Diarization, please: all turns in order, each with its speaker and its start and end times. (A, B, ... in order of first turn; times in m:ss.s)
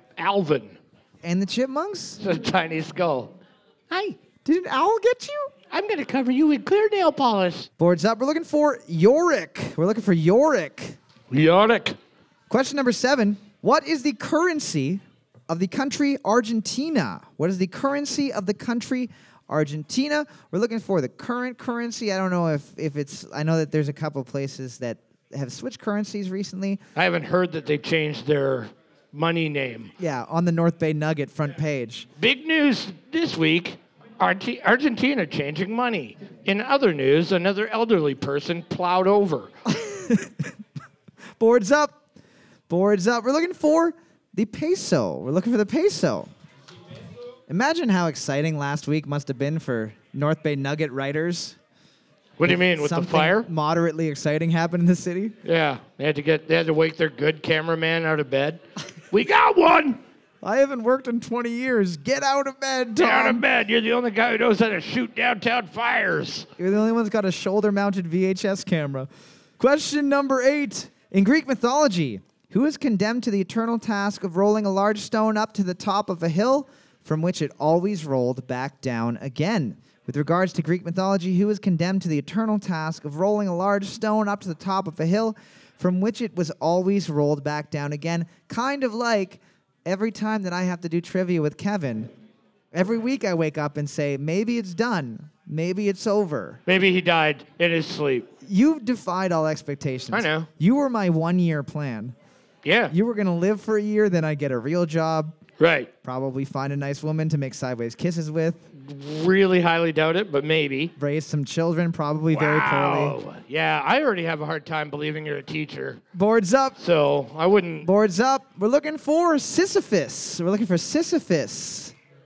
0:00.2-0:00.8 A
0:01.2-0:02.2 B
0:02.2-0:03.3 A
0:03.9-0:04.2 A
0:04.4-0:05.5 B
0:05.7-0:07.7 A
0:07.8-0:11.0 B
0:11.3-0:12.0 A
0:12.5-0:26.8 B
0:27.0-0:29.9 A
0:30.0-0:32.1 B
0:32.2-0:39.5 A
0:39.7-0:40.5 B
0:41.4-0:42.0 B
0:42.7-0:46.3 B
0:47.5-0:51.6 B
0:52.4-0:53.5 A
0:52.4-0:55.3 B
0:55.4-1:00.0 A
1:00.4-1:03.4 B
1:03.0-1:06.5 A
1:06.6-1:09.1 B
1:09.6-1:32.1 B
1:32.7-1:36.6 B
1:36.6-1:38.3 A
1:38.4-1:42.1 B
1:40.1-1:40.5 A
1:42.6-1:42.9 A
1:42.9-1:45.4 B
1:45.6-1:45.9 A
1:46.0-1:48.6 B
1:48.8-1:50.9 A
1:51.0-1:53.2 B
1:52.3-1:56.0 A
1:56.1-1:56.8 B
1:56.8-1:57.9 A
1:57.8-2:01.9 B